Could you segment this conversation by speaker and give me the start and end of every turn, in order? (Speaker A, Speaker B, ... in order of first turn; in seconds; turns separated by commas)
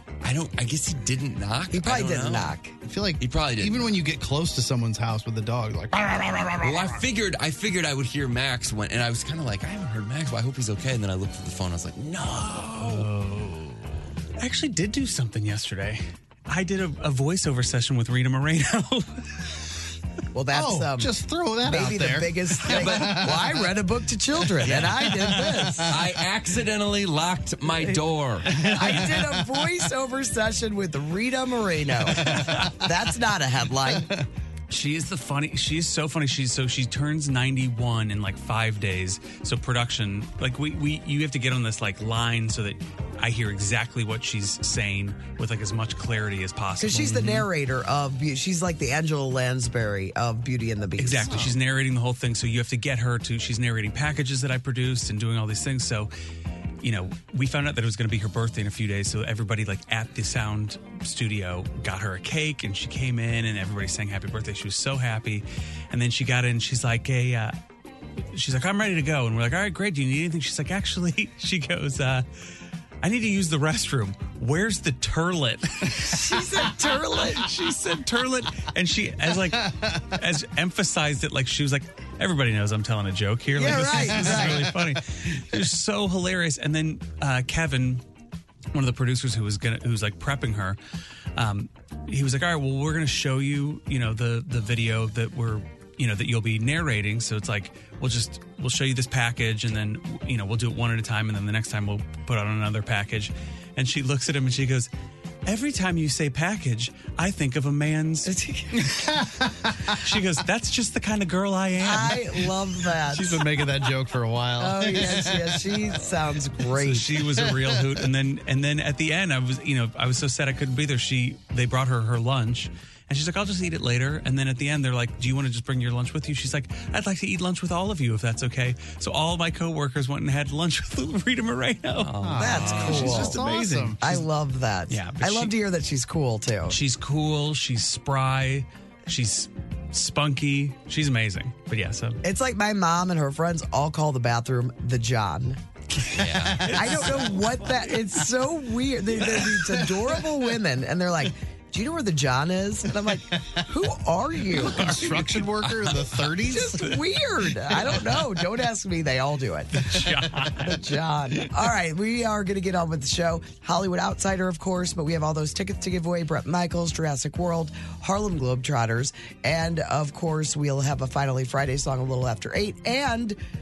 Speaker A: 0.2-2.6, Speaker B: 1.7-2.7, Speaker C: 2.9-7.0, Speaker A: 3.2-4.0, Speaker A: 6.6-13.1, Speaker C: 12.8-13.8, Speaker D: 14.4-19.5, Speaker B: 20.3-21.1, Speaker C: 20.5-23.6, Speaker B: 21.6-25.9, Speaker A: 22.8-23.3, Speaker C: 24.6-25.9, Speaker D: 24.7-25.5, Speaker A: 25.9-28.5, Speaker C: 28.5-29.2, Speaker B: 28.6-34.1, Speaker C: 32.0-32.8, Speaker C: 33.9-34.3, Speaker D: 34.7-47.5, Speaker B: 46.8-51.5, Speaker D: 51.0-56.1, Speaker D: 56.8-67.6, Speaker D: 68.2-72.3, Speaker D: 73.0-76.2, Speaker B: 76.0-77.5, Speaker D: 77.3-88.0, Speaker C: 79.6-80.0, Speaker B: 83.5-84.7, Speaker C: 84.0-84.7, Speaker D: 88.7-90.8, Speaker D: 91.4-104.9, Speaker D: 105.5-108.3, Speaker B: 108.2-109.0, Speaker C: 108.8-110.0, Speaker D: 110.0-112.3, Speaker B: 111.8-113.5, Speaker C: 113.1-115.8, Speaker B: 114.6-117.2, Speaker D: 116.7-134.2, Speaker C: 117.4-117.9, Speaker A: 132.0-133.1, Speaker C: 132.2-134.2, Speaker B: 132.3-133.4, Speaker B: 134.0-136.8, Speaker D: 134.9-135.6, Speaker D: 136.7-142.2, Speaker B: 142.2-145.6, Speaker A: 146.1-147.3, Speaker C: 146.4-147.4, Speaker B: 146.6-155.0, Speaker C: 149.6-150.0, Speaker C: 154.4-156.9, Speaker A: 155.3-156.3, Speaker B: 156.5-173.4, Speaker D: 159.7-160.8